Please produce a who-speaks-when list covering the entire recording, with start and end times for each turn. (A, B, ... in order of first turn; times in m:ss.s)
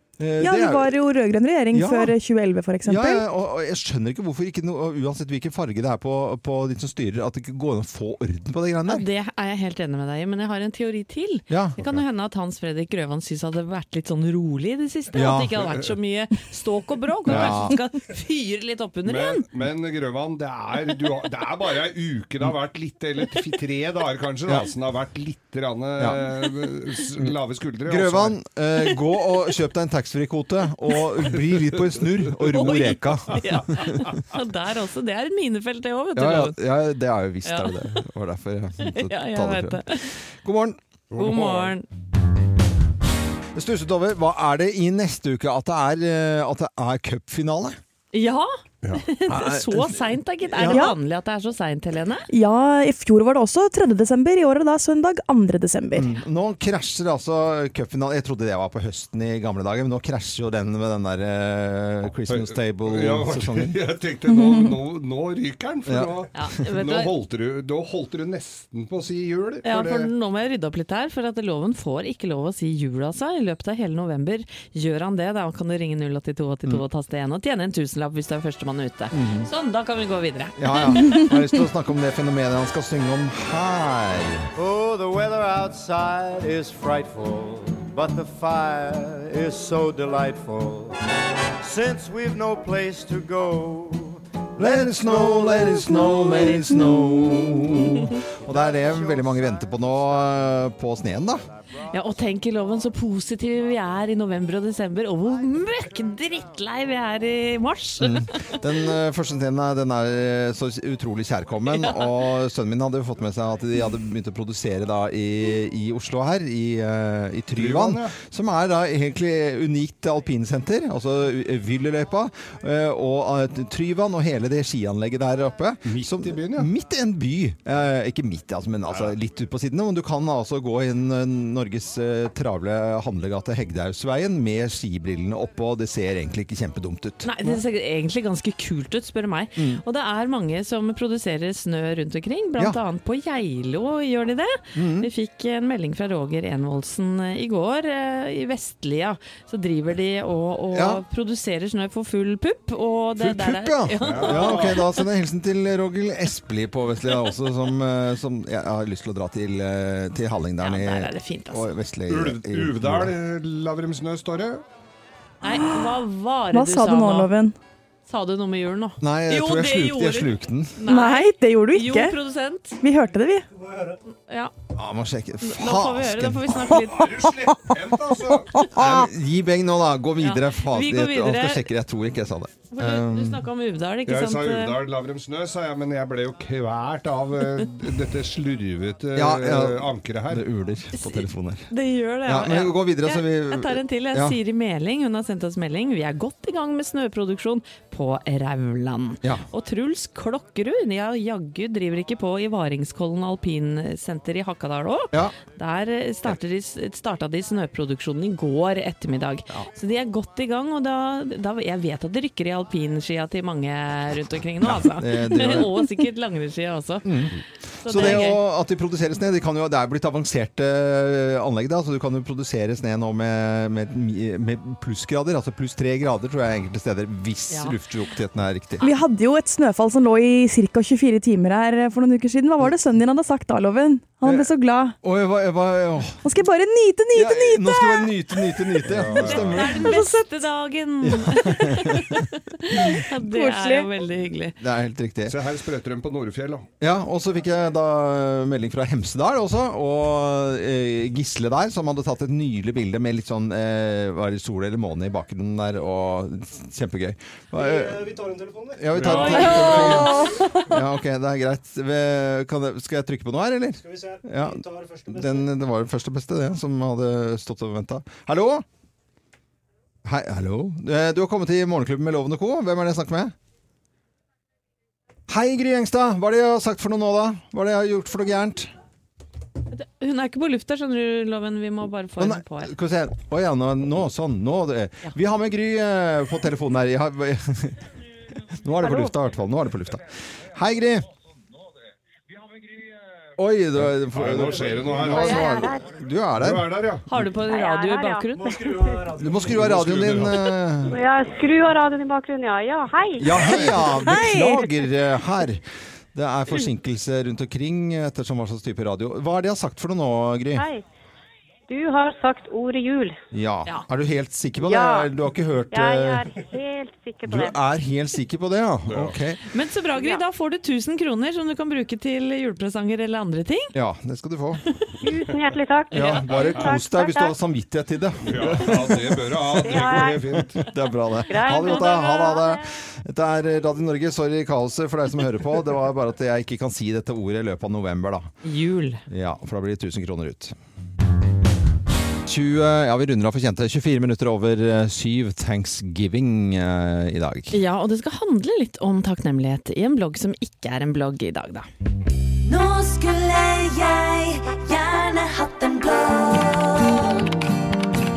0:00.2-0:00.9 A
0:00.4-0:03.3 B
0:01.7-0:02.1 A
0:02.8-0:09.0 A
0:08.9-0:19.4 C
0:11.5-0:12.0 A
0:15.1-0:15.7 A
0:17.3-0:17.8 A
0:17.3-0:17.6 D
0:19.0-0:28.4 D
0:27.9-0:34.0 A
0:28.9-0:29.5 C
0:32.5-0:36.6 C
0:36.2-0:40.8 A
0:37.4-0:37.9 C
0:38.8-0:40.1 C
0:41.1-0:41.8 D
0:41.2-0:41.9 C
0:43.6-0:47.8 A
0:48.1-0:52.3 C
0:49.3-0:50.0 A
0:50.5-0:50.8 A
0:50.6-0:51.0 B
0:52.3-0:56.2 B
0:56.0-1:03.8 A
1:02.3-1:10.1 D
1:05.9-1:06.2 A
1:06.3-1:07.2 C
1:09.6-1:21.3 C
1:19.1-1:19.5 A
1:20.6-1:24.5 A
1:24.6-1:31.0 E
1:31.6-1:35.8 E
1:34.6-1:41.4 A
1:36.1-1:37.2 C
1:37.4-1:43.3 E
1:41.9-1:48.6 C
1:44.0-1:44.3 E
1:45.4-1:46.4 E
1:48.0-2:17.6 A
1:51.8-1:52.1 C
1:57.6-1:58.2 D
2:05.9-2:06.7 D
2:17.2-2:35.1 C
2:19.6-2:19.8 A
2:24.8-2:25.1 A
2:30.7-2:31.0 A
2:33.2-2:43.1 A
2:34.0-2:34.8 D
2:40.6-2:41.7 C
2:42.1-2:44.6 D
2:45.4-2:47.3 C
2:45.4-2:46.0 B
2:46.5-2:47.6 B
2:48.1-2:52.8 C
2:49.0-2:50.8 A
2:50.8-2:52.1 B
2:52.8-2:53.5 B
2:54.1-2:54.5 C
2:54.7-2:56.8 A
2:55.4-2:57.3 C
2:56.9-2:58.5 D
2:58.7-3:03.4 A
3:00.2-3:01.7 C
3:02.7-3:04.8 C
3:04.1-3:10.4 D
3:09.2-3:11.7 A
3:10.9-3:37.3 C
3:12.2-3:14.4 A
3:34.6-3:35.8 A
3:37.0-3:48.8 A
3:37.8-3:38.4 C
3:47.5-3:47.8 C
3:48.8-3:55.0 B
3:54.2-3:56.2 A
3:56.2-3:58.7 B
3:57.1-4:00.0 A
3:58.9-3:59.8 D
3:59.2-4:04.6 C
3:59.8-4:00.2 B
4:01.0-4:03.0 A
4:03.1-4:03.9 B
4:04.6-4:05.4 A
4:05.3-4:06.7 D
4:06.8-4:28.6 A
4:18.9-4:20.2 D
4:19.3-4:20.8 C
4:30.0-4:33.3 A
4:35.3-4:38.7 A
4:39.7-4:42.7 C
4:42.2-4:47.8 A
4:48.5-4:51.1 A
4:48.8-4:49.1 C
4:53.4-4:56.6 A
4:53.8-4:55.6 D
4:55.1-4:55.8 F
4:56.4-4:57.1 D
4:57.1-4:59.0 C
4:57.4-4:58.3 F
4:59.1-5:01.0 A
4:59.2-5:00.4 D
5:00.9-5:03.3 F
5:03.2-5:10.7 A
5:03.4-5:03.8 D
5:04.0-5:04.7 B
5:10.6-5:10.8 F
5:11.7-5:13.2 F
5:13.3-5:16.3 A
5:14.6-5:15.1 F
5:15.7-5:17.6 F
5:17.2-5:19.4 A
5:18.9-5:19.2 D
5:19.5-5:23.7 C
5:23.7-5:24.6 A
5:25.0-5:27.3 F
5:25.9-5:38.3 A
5:26.3-5:26.8 D
5:28.2-5:30.6 D
5:29.5-5:30.4 F
5:31.3-5:32.6 F
5:38.4-5:39.0 C
5:39.1-5:40.6 A
5:42.3-5:47.6 A
5:47.5-5:51.7 C
5:52.5-5:57.2 G